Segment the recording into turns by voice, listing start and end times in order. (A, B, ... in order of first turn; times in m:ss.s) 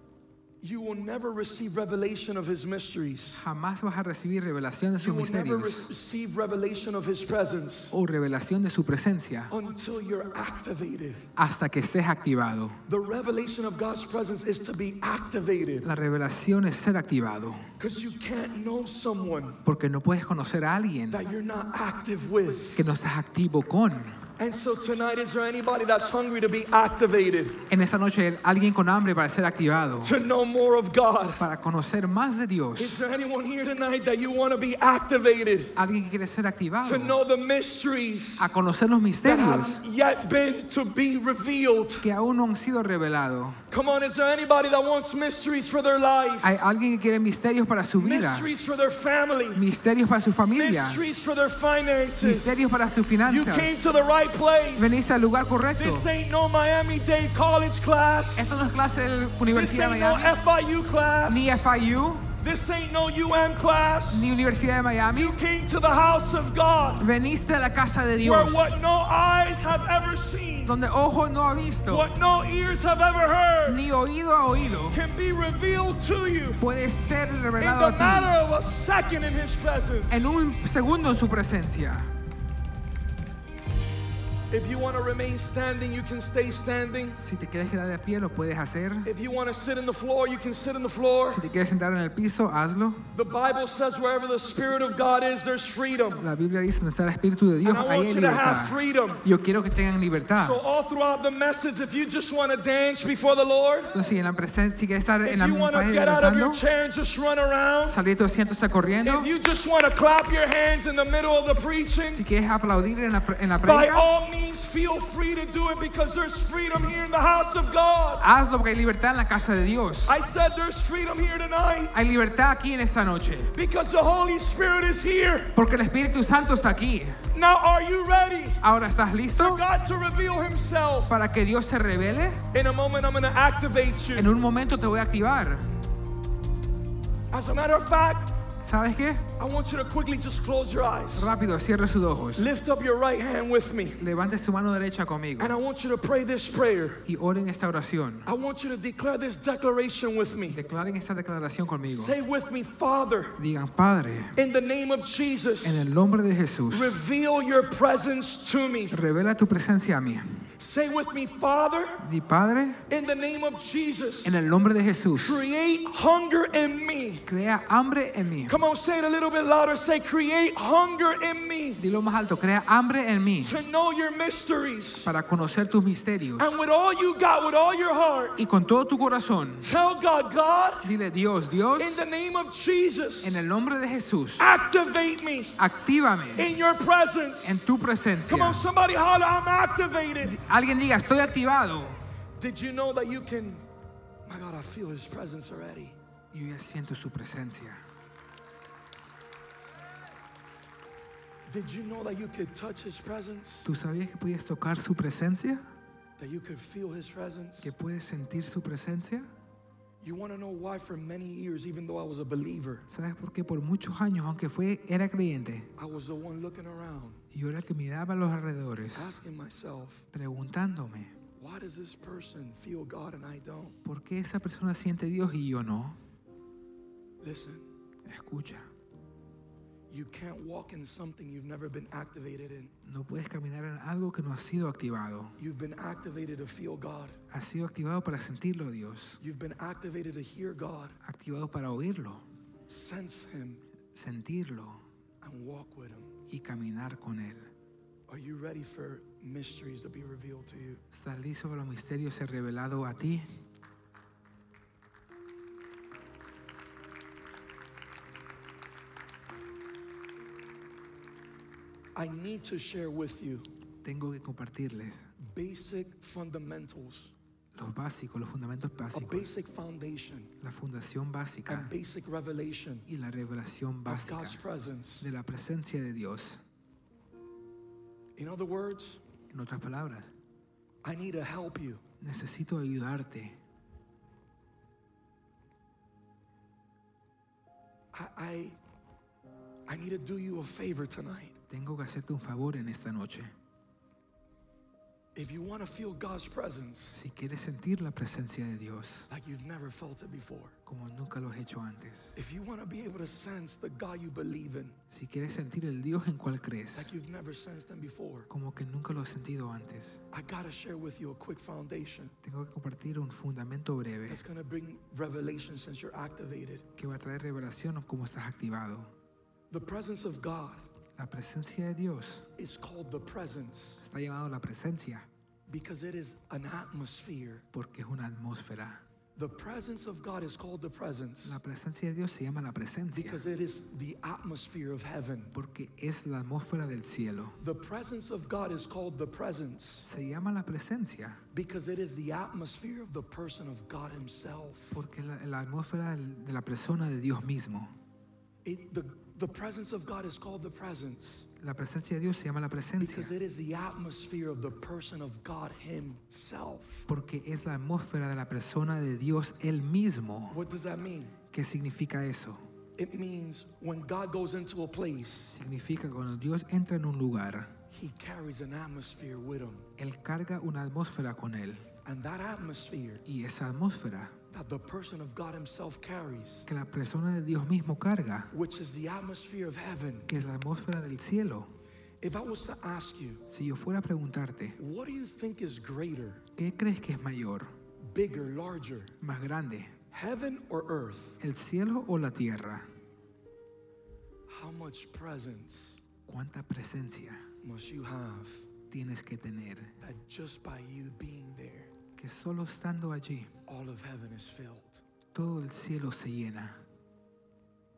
0:00.6-0:03.4 A
0:03.4-0:05.9 B
0:05.0-0:07.9 A
0:07.9-0:09.5 B
0:09.5-0:11.3 A
0:11.4-0:12.8 B
0:12.9-0:15.9 A
0:15.8-0:17.7 B
0:17.8-0:19.6 A
0:19.6-0:21.3 B
0:21.1-0:22.8 A
0:22.7-0:24.2 B
0:24.4-0:27.6 A
0:27.7-0:30.2 B
0:30.0-0:31.4 A
0:31.4-0:33.0 B
0:32.8-0:35.8 A
0:35.8-0:37.2 B
0:36.8-0:38.5 A
0:38.4-0:39.8 B
0:39.2-0:42.1 A
0:42.0-0:43.6 B
0:43.7-0:46.6 A
0:46.4-0:48.5 B
0:48.0-0:49.6 A
0:49.5-0:51.0 B
0:50.5-0:52.6 A
0:52.2-0:53.8 B
0:53.2-0:55.0 A
0:54.8-0:56.1 B
0:55.8-0:58.5 A
0:58.4-1:00.4 B
0:59.5-1:01.6 A
1:01.3-1:02.3 B
1:02.4-1:04.3 A
1:04.1-1:05.4 B
1:05.1-1:07.1 A
1:07.0-1:08.7 B
1:08.2-1:10.8 A
1:10.6-1:12.1 B
1:11.8-1:13.8 A
1:13.6-1:15.0 B
1:14.9-1:16.6 A
1:16.6-1:18.3 B
1:17.6-1:20.3 A
1:20.1-1:22.1 B
1:24.5-1:27.2 A
1:27.2-1:29.1 B
1:29.0-1:31.4 A
1:31.3-1:33.1 B
1:33.1-1:36.2 A
1:36.2-1:40.6 B
1:37.6-1:39.2 A
1:40.3-1:43.9 A
1:43.9-1:46.6 B
1:45.2-1:48.0 A
1:47.9-1:49.3 B
1:49.0-1:52.2 A
1:52.1-1:54.1 B
1:53.6-1:58.2 A
1:58.2-2:00.2 B
2:00.0-2:01.9 A
2:01.9-2:03.5 B
2:03.5-2:05.6 A
2:05.5-2:07.2 B
2:07.3-2:08.6 A
2:08.6-2:09.6 B
2:09.3-2:11.2 A
2:11.1-2:12.4 B
2:12.5-2:14.3 A
2:14.1-2:15.7 B
2:17.3-2:18.3 A
2:18.6-2:19.2 B
2:19.4-2:21.3 A
2:21.1-2:22.5 B
2:22.4-2:24.0 A
2:24.0-2:25.6 B
2:25.4-2:27.0 A
2:27.0-2:28.3 B
2:28.2-2:30.6 A
2:30.5-2:32.2 B
2:31.8-2:33.4 A
2:33.4-2:34.4 B
2:34.3-2:35.9 A
2:35.6-2:37.0 B
2:36.7-2:39.0 A
2:38.9-2:40.4 B
2:40.6-2:42.0 A
2:42.0-2:42.8 B
2:42.9-2:44.4 A
2:44.2-2:45.4 B
2:45.1-2:47.2 A
2:47.2-2:48.6 B
2:48.5-2:51.8 A
2:51.8-2:53.6 B
2:53.4-2:55.1 A
2:55.0-2:56.6 B
2:56.4-2:58.4 A
2:58.4-2:59.7 B
2:59.6-3:00.9 A
3:00.8-3:02.0 B
3:01.8-3:03.4 A
3:03.2-3:04.5 B
3:04.4-3:05.6 A
3:05.6-3:06.5 B
3:06.4-3:07.6 A
3:07.4-3:08.6 B
3:08.3-3:10.4 A
3:10.2-3:12.0 B
3:12.4-3:13.6 A
3:14.2-3:16.0 A
3:16.3-3:17.8 B
3:21.5-3:23.7 A
3:23.6-3:25.7 B
3:26.2-3:27.7 A
3:27.6-3:29.3 B
3:30.0-3:32.9 A
3:32.9-3:35.7 B
3:35.8-3:37.2 A
3:37.3-3:39.1 B
3:38.9-3:40.0 A
3:40.1-3:41.1 B
3:41.4-3:43.8 A
3:43.8-3:46.0 B
3:47.2-3:47.7 A
3:48.0-3:48.7 B
3:49.9-3:52.7 A
3:52.8-3:55.4 B
3:55.4-3:57.2 A
3:57.3-3:59.2 B
3:59.2-4:01.0 A
4:01.0-4:02.2 B
4:02.7-4:03.6 A
4:03.9-4:04.8 B
4:05.2-4:06.1 A
4:06.3-4:07.5 B
4:08.1-4:10.8 A
4:10.9-4:13.3 B
4:22.0-4:23.5 A
4:23.8-4:25.0 B
4:25.2-4:27.1 A
4:27.5-4:29.3 B
4:28.9-4:30.3 A
4:30.4-4:31.7 B
4:31.5-4:32.9 A
4:32.9-4:34.4 B
4:33.8-4:35.1 A
4:35.0-4:36.4 B
4:38.2-4:39.0 A
4:39.3-4:40.1 B
4:40.8-4:41.8 A
4:42.0-4:43.4 B
4:47.9-4:48.6 A
4:49.7-4:51.4 A
4:51.5-4:53.3 B
4:55.1-4:57.0 A
4:56.9-4:59.1 B
4:59.1-5:00.6 A
5:00.6-5:02.2 B
5:02.2-5:04.8 A
5:04.9-5:06.9 B
5:06.7-5:08.3 A
5:08.3-5:10.0 B
5:10.1-5:12.1 A
5:12.2-5:14.2 B
5:14.1-5:16.7 A
5:16.8-5:18.9 B
5:19.5-5:20.6 A
5:21.0-5:22.2 B
5:22.4-5:23.8 A
5:23.8-5:25.1 B
5:25.5-5:27.4 A
5:27.5-5:28.8 B
5:29.2-5:31.4 A
5:31.2-5:33.2 B
5:32.9-5:35.3 A
5:35.3-5:37.4 B
5:37.4-5:39.9 A
5:39.8-5:41.2 B
5:41.3-5:44.8 A
5:44.7-5:47.7 B
5:48.4-5:51.3 A
5:51.4-5:53.1 B
5:52.8-5:56.9 A
5:56.9-6:00.4 B
6:00.3-6:01.2 A
6:01.3-6:02.4 B
6:02.8-6:05.3 A
6:05.3-6:07.5 B
6:07.7-6:09.7 A
6:09.8-6:11.7 B
6:11.8-6:13.0 A
6:13.0-6:14.1 B
6:14.3-6:16.5 A
6:16.5-6:18.3 B
6:18.3-6:20.1 A
6:20.1-6:21.5 B
6:22.0-6:23.2 A
6:23.3-6:24.6 B
6:24.6-6:26.2 A
6:26.4-6:27.5 B
6:27.8-6:29.0 A
6:29.0-6:29.7 B
6:29.9-6:31.2 A
6:31.2-6:32.7 B
6:34.3-6:35.8 A
6:36.1-6:37.2 B
6:37.4-6:38.5 A
6:38.7-6:39.7 B
6:39.8-6:41.7 A
6:42.0-6:43.3 B
6:43.5-6:44.8 A
6:45.1-6:46.6 B